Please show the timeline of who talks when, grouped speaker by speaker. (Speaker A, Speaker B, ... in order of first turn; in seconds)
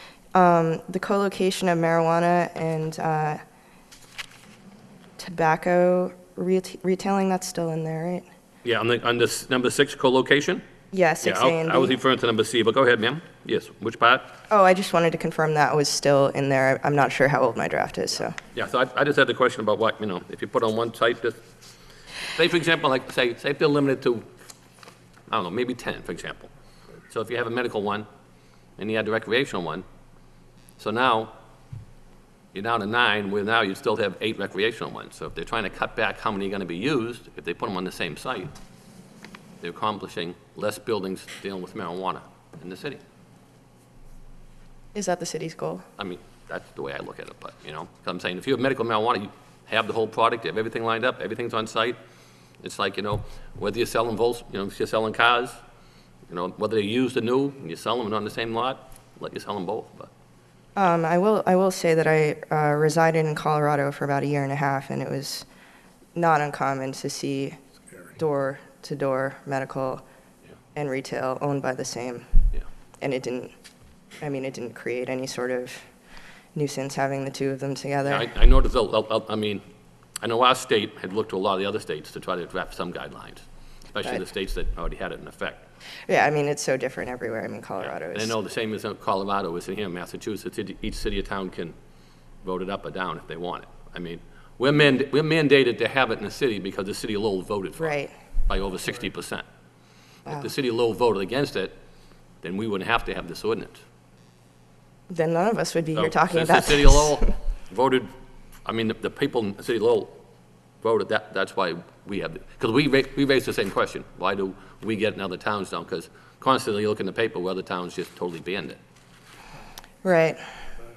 Speaker A: 0.3-3.4, 5.2-8.3, 10.9-12.0, 14.5-18.4, 44.9-45.9, 60.8-65.5, 66.2-67.6, 68.2-70.0, 70.7-72.3, 73.0-73.5, 74.2-75.9, 76.5-78.3, 86.1-88.4, 97.8-98.1, 105.1-107.3, 120.0-120.4
Speaker B: 8.6-10.6, 11.2-14.4, 18.5-21.4, 22.3-24.3, 25.3-26.5, 27.1-28.1, 28.8-29.9, 30.8-31.3, 32.5-38.5, 39.6-43.0, 46.0-52.0, 52.6-55.6, 56.3-60.1, 78.1-79.6, 80.2-85.6, 87.8-91.7, 92.4-98.0, 98.5-99.4, 100.3-101.7, 102.4-103.8, 106.0-108.1, 108.7-110.1, 110.8-118.8